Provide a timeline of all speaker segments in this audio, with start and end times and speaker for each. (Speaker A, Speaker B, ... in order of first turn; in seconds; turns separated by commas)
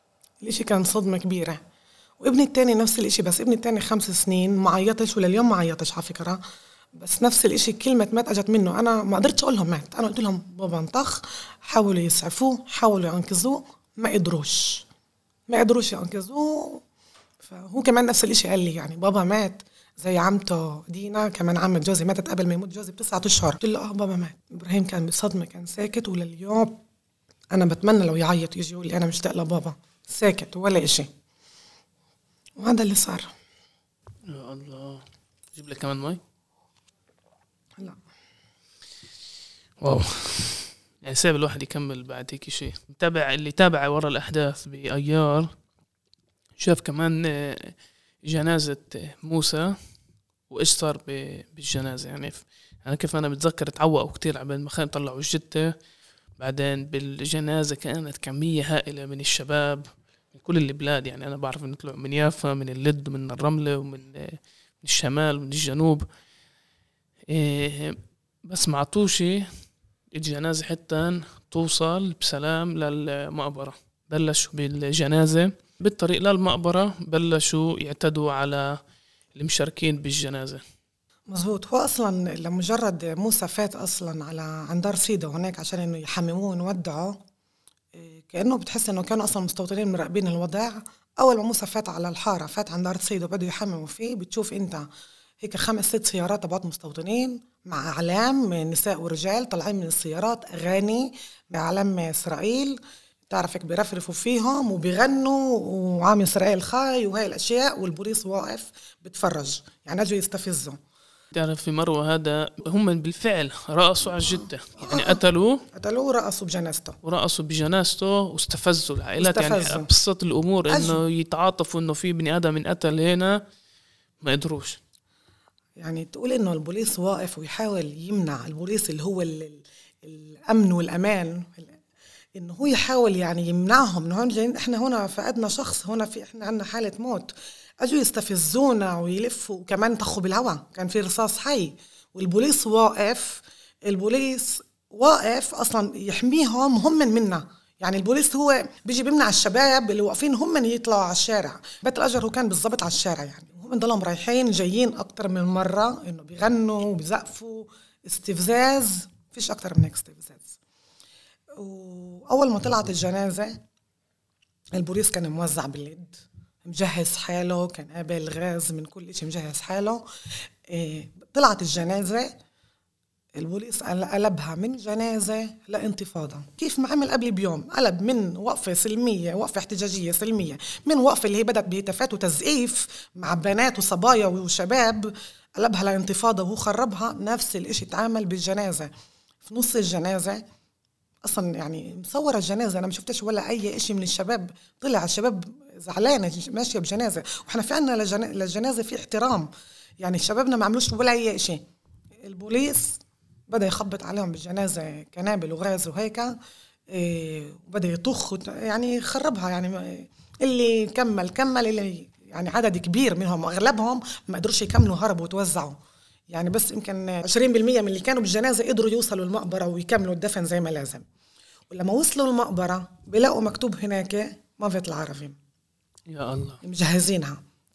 Speaker A: 0.4-1.6, Speaker A: 2.2-6.4, Speaker A: 7.0-14.8, Speaker A: 15.5-16.8, Speaker A: 17.4-26.8, Speaker A: 27.5-31.1, Speaker A: 32.6-33.3, Speaker B: 34.3-36.2, Speaker B: 39.8-45.5, Speaker B: 46.6-49.8, Speaker B: 50.5-55.7, Speaker B: 56.4-66.1, Speaker B: 67.3-69.5, Speaker B: 70.1-78.8, Speaker B: 79.3-80.6, Speaker A: 81.3-87.2, Speaker A: 88.0-94.9, Speaker A: 95.4-110.8, Speaker B: 111.3-115.6, Speaker A: 114.2-115.2, Speaker A: 115.7-117.0, Speaker B: 117.0-123.4, Speaker A: 119.2-119.9, Speaker A: 120.7-121.0, Speaker B: 124.2-124.8, Speaker A: 125.8-131.8, Speaker A: 132.4-160.6, Speaker A: 161.6-163.6, Speaker A: 164.8-170.0, Speaker A: 170.7-172.3, Speaker A: 173.4-188.9, Speaker A: 189.4-190.4, Speaker A: 191.2-199.5, Speaker A: 200.0-201.6, Speaker A: 202.2-206.3, Speaker A: 206.9-215.8, Speaker A: 216.3-221.1, Speaker A: 221.7-225.4, Speaker B: 226.1-226.6, Speaker A: 226.6-227.4